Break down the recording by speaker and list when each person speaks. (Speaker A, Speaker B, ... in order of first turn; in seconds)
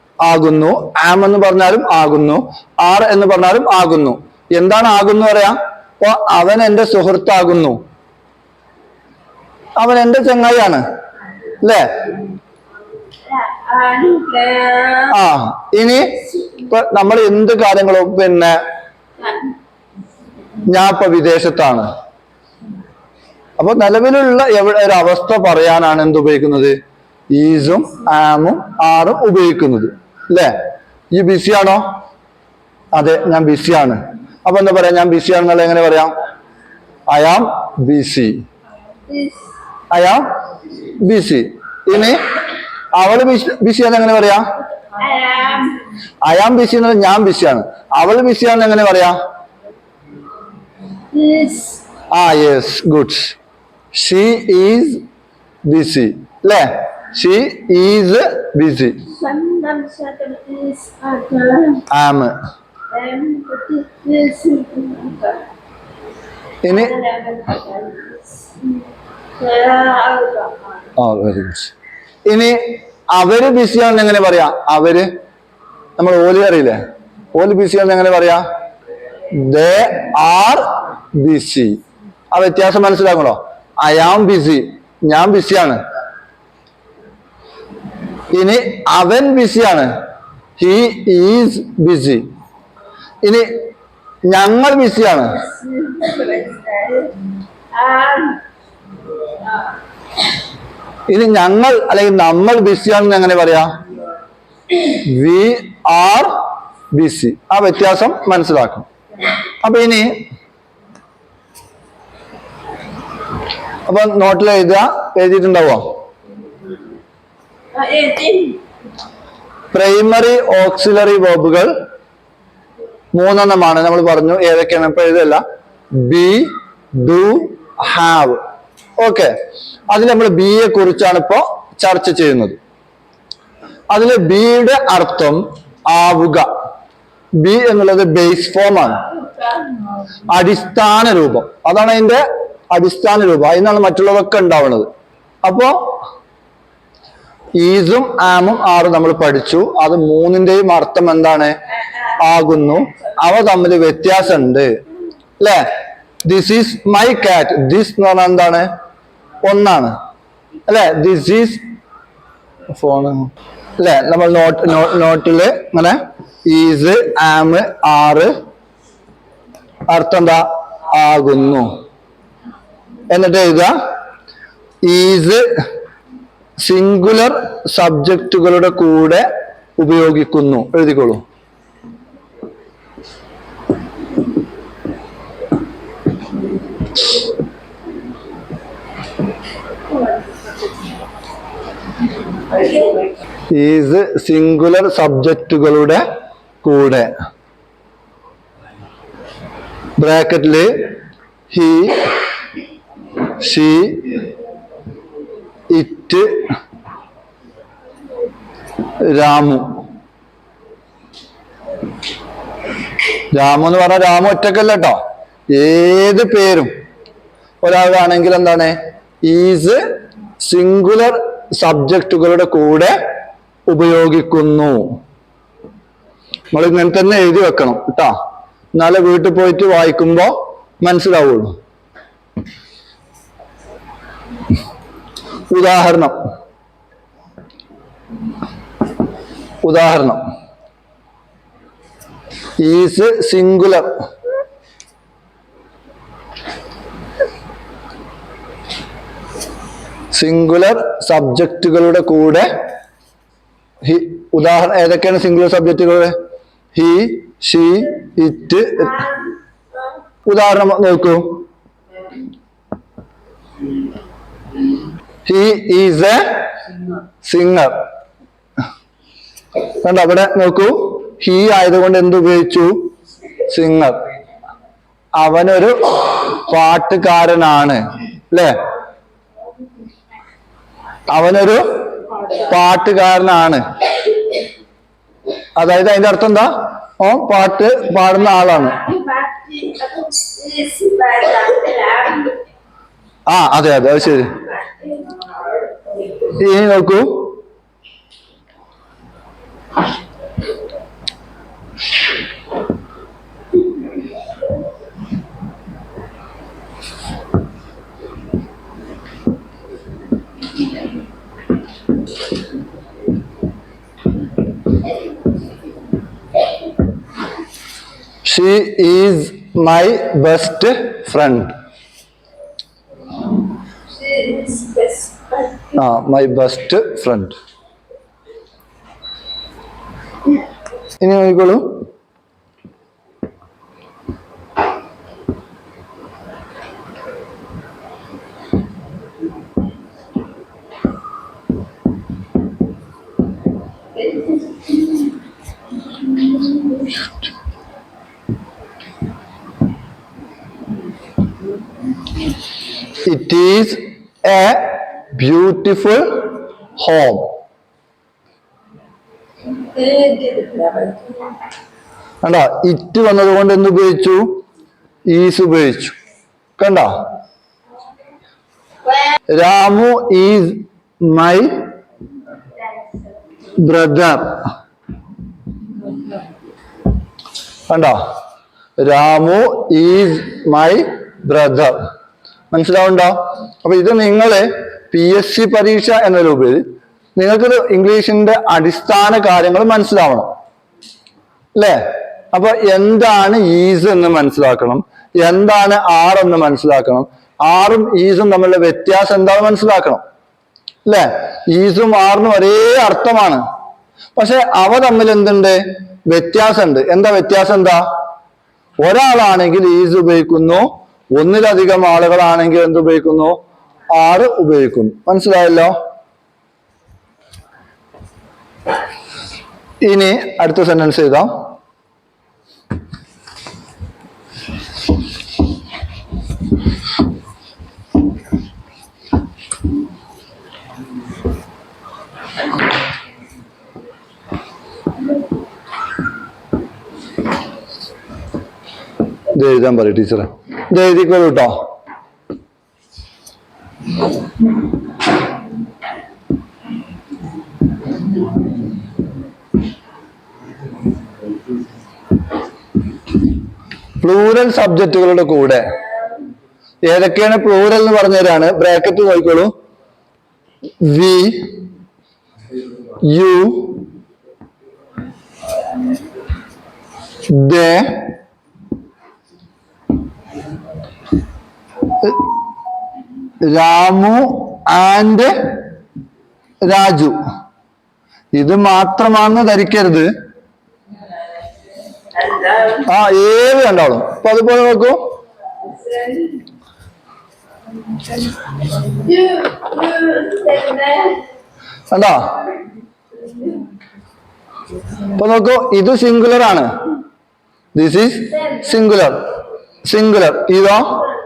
Speaker A: 0.2-7.8, 9.8-10.8, 11.6-12.0, 15.1-18.6, 20.7-21.9, 23.6-26.8, 27.3-30.5, 31.1-31.8, 32.9-36.1, 37.1-38.4, 39.9-40.2, 41.0-42.2, 43.0-44.4, 46.2-49.2, 52.1-53.4, 53.9-55.0, 55.6-59.0, 61.9-62.4, 66.6-66.9, 71.0-71.7, 72.3-75.1, 76.0-76.8, 77.3-78.4, 79.3-81.8, 82.3-85.8, 88.3-89.9, 90.6-92.2, 93.2-93.5, 94.3-95.4, 101.1-103.7, 104.9-106.3, 106.9-108.9, 109.6-110.2, 113.9-115.9, 119.7-121.7, 123.1-125.4, 126.0-128.4, 129.0-129.3, 129.9-132.6, 133.9-136.5, 137.4-139.0, 140.3-144.9, 145.4-146.0, 147.6-151.6, 152.2-154.8, 155.4-155.7, 156.2-158.7, 159.4-160.0, 160.7-161.6, 162.7-168.3, 169.9-171.8, 173.1-173.8, 174.8-175.5, 176.6-179.3, 179.8-181.2, 193.5-196.0, 196.6-197.1, 200.0-200.8, 201.5-202.2, 203.4-204.2, 205.7-206.4, 209.0-209.8, 213.3-216.7, 217.6-219.8, 220.4-223.0, 223.7-225.0, 226.5-228.1, 228.8-231.6, 235.5-236.1, 239.6-240.2, 242.6-243.9, 250.1-252.5, 253.8-256.1, 256.7-259.0, 260.2-261.4, 265.2-266.2, 267.2-267.7, 269.8-272.9, 273.5-274.0, 275.2-278.6, 281.1-281.6, 282.5-283.6, 285.6-288.8, 293.3-294.3, 296.4-297.4, 318.2-321.5, 325.8-327.4, 331.0-331.9, 353.0-356.2, 356.8-357.3, 362.2-364.4, 365.1-365.9, 366.6-366.9, 369.3-371.6, 373.6-374.5, 377.7-378.0, 378.8-381.8, 382.5-386.6, 387.2-390.3, 391.6-391.8, 392.3-400.0, 400.9-403.4, 404.1-407.8, 408.8-413.4, 413.9-415.7, 419.8-421.5, 439.3-441.6, 454.0-455.8, 456.9-459.5, 460.8-461.6, 463.0-463.9, 467.3-468.1, 473.4-475.5, 476.6-477.2, 478.3-480.1, 482.9-485.0, 491.9-492.3, 495.1-496.7, 497.7-499.3, 499.9-501.0
Speaker B: 13.2-15.2, 19.2-19.5, 39.1-39.5, 45.0-45.8, 51.1-51.8, 59.1-61.9, 62.9-65.4, 66.7-68.8, 69.4-70.8, 95.4-98.4, 117.7-118.6, 139.1-139.8, 151.9-152.2, 190.0-190.5, 192.5-193.1, 258.8-259.9, 288.2-292.4, 294.2-296.0, 323.9-325.7, 343.9-345.1, 345.9-346.9, 359.5-361.4, 368.9-369.1, 482.1-482.9, 485.6-486.4, 488.8-491.3, 493.1-493.7